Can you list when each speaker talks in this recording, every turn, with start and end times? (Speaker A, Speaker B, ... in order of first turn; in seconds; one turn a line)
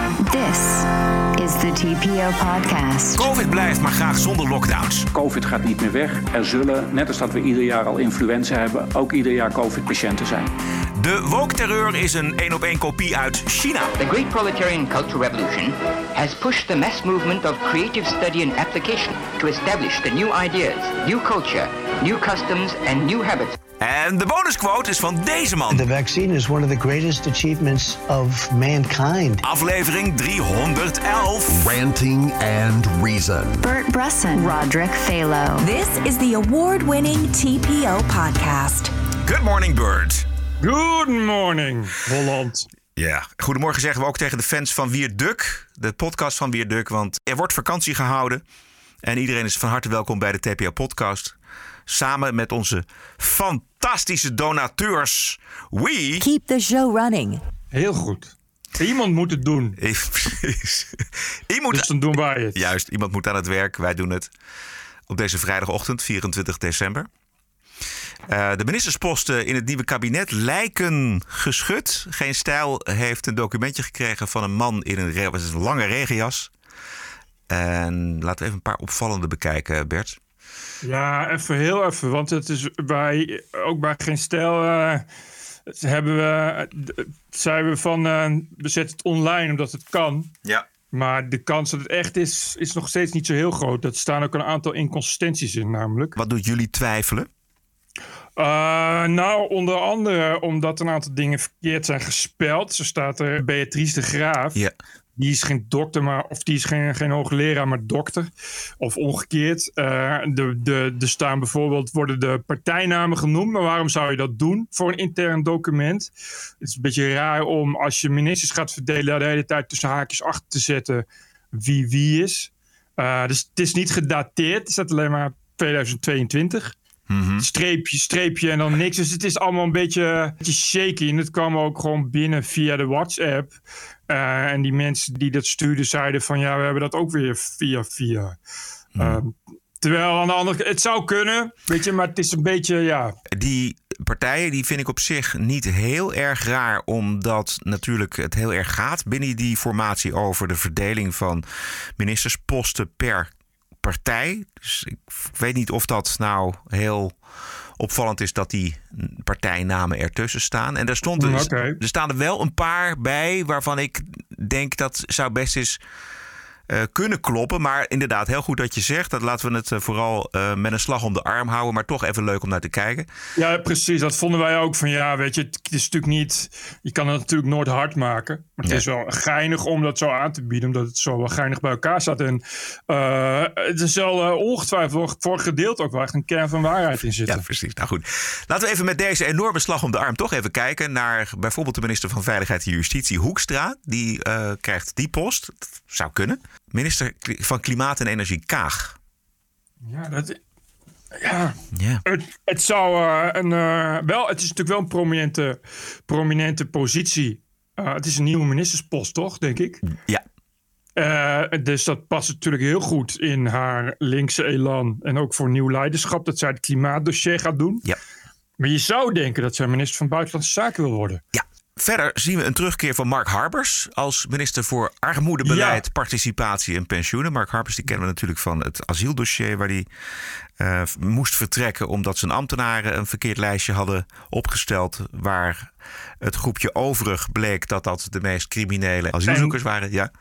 Speaker A: 0.2-3.3
Speaker B: 3.2-5.1
Speaker C: 5.1-10.5
Speaker B: 10.9-13.9
Speaker D: 14.0-23.6
Speaker B: 23.8-25.9
Speaker E: 25.7-29.4
Speaker B: 29.4-31.6
Speaker F: 31.5-33.6
Speaker A: 33.6-35.7
Speaker G: 35.6-38.9
Speaker B: 39.2-40.2
Speaker H: 40.6-42.7
Speaker B: 43.0-48.4
Speaker B: 49.0-51.4
Speaker B: 51.9-56.3
Speaker G: 56.2-57.4
Speaker H: 57.7-59.8
Speaker B: 59.8-62.0
Speaker H: 61.7-62.6
Speaker B: 62.5-64.3
Speaker B: 65.1-67.1
Speaker B: 68.3-76.5
Speaker B: 77.5-80.2
Speaker H: 80.8-85.0
Speaker H: 85.7-90.3
Speaker H: 90.9-96.2
Speaker B: 96.2-97.3
Speaker H: 98.4-104.6
Speaker H: 105.2-116.1
Speaker H: 116.6-126.7
Speaker B: 127.1-127.5
Speaker H: 127.4-133.5
Speaker H: 134.1-138.4
Speaker B: 138.9-139.2
Speaker H: 139.0-143.1
Speaker B: 143.3-151.4
Speaker B: 152.0-153.3
Speaker B: 153.8-157.2
Speaker B: 157.8-165.8
Speaker H: 161.2-161.8
Speaker B: 166.7-173.1
Speaker H: 173.3-187.4
Speaker B: 187.2-199.0
Speaker H: 199.8-200.4
Speaker H: 201.1-209.8
Speaker B: 201.7-202.0
Speaker B: 209.9-210.2
Speaker H: 210.9-217.8
Speaker H: 218.6-221.2
Speaker B: 221.3-229.9
Speaker H: 225.4-225.8
Speaker B: 230.6-240.1
Speaker H: 239.3-239.6